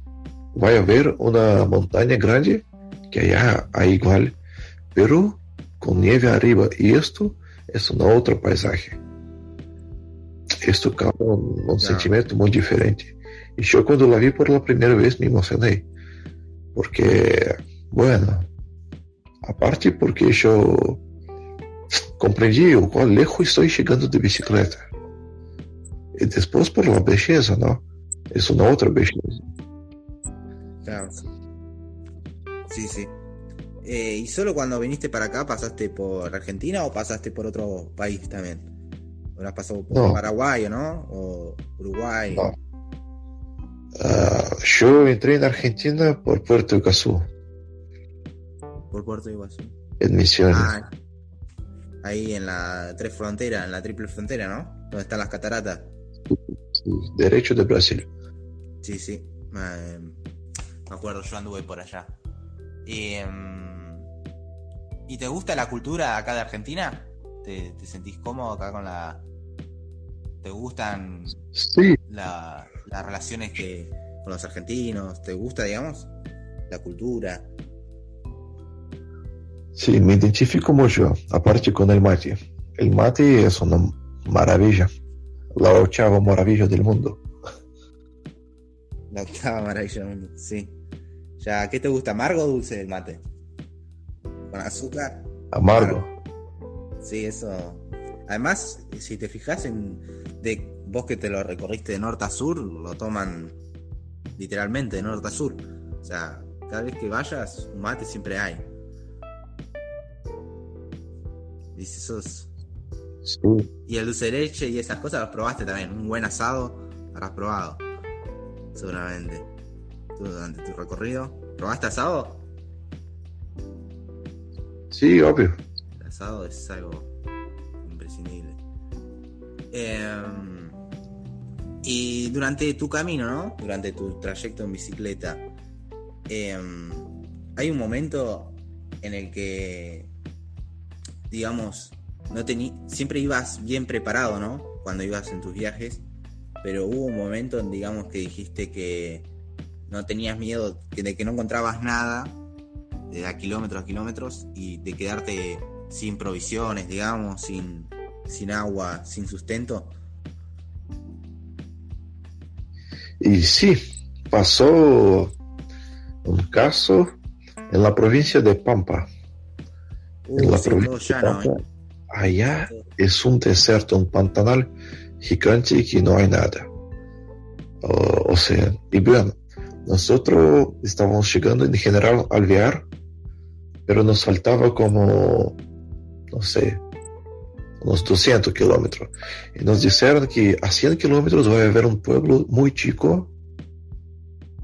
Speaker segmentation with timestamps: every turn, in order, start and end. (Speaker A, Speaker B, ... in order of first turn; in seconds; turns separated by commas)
Speaker A: 0.5-4.4, Speaker A: 4.9-9.0, Speaker A: 10.6-15.9, Speaker B: 11.8-12.1, Speaker A: 16.7-18.5, Speaker A: 19.4-21.0, Speaker A: 22.2-24.9, Speaker A: 26.1-29.4, Speaker B: 30.8-31.2, Speaker B: 32.7-33.1, Speaker B: 33.8-38.7, Speaker B: 39.4-42.5, Speaker A: 39.9-40.2, Speaker A: 44.0-47.2, Speaker B: 48.9-49.8, Speaker A: 50.0-50.7, Speaker B: 50.5-50.9, Speaker B: 52.0-55.9, Speaker A: 56.3-58.1, Speaker B: 58.8-60.2, Speaker B: 60.9-62.2, Speaker B: 62.9-64.1, Speaker B: 65.1-69.3, Speaker B: 70.4-71.5, Speaker A: 71.5-72.0, Speaker B: 72.1-76.1, Speaker B: 76.7-77.5, Speaker A: 79.8-84.9, Speaker A: 85.6-87.2, Speaker B: 89.1-90.8, Speaker B: 91.4-93.2, Speaker B: 94.5-96.1, Speaker A: 95.5-96.1, Speaker B: 97.0-103.6, Speaker B: 104.4-108.7, Speaker B: 111.8-112.5, Speaker A: 113.2-113.7, Speaker B: 113.9-117.8, Speaker B: 118.7-119.5, Speaker B: 120.2-122.5, Speaker A: 124.9-125.6, Speaker B: 126.0-127.1, Speaker B: 127.8-128.6, Speaker B: 129.7-130.8, Speaker B: 131.8-135.5, Speaker B: 136.3-140.1, Speaker B: 141.3-146.1, Speaker B: 146.6-149.3, Speaker B: 149.9-152.4, Speaker B: 153.1-159.9, Speaker A: 163.2-165.3, Speaker A: 166.2-167.2, Speaker A: 167.7-169.1, Speaker B: 170.3-171.6, Speaker A: 170.4-171.6, Speaker A: 172.1-176.7, Speaker A: 177.8-182.9, Speaker A: 183.9-185.6, Speaker A: 186.3-186.8, Speaker A: 187.8-193.3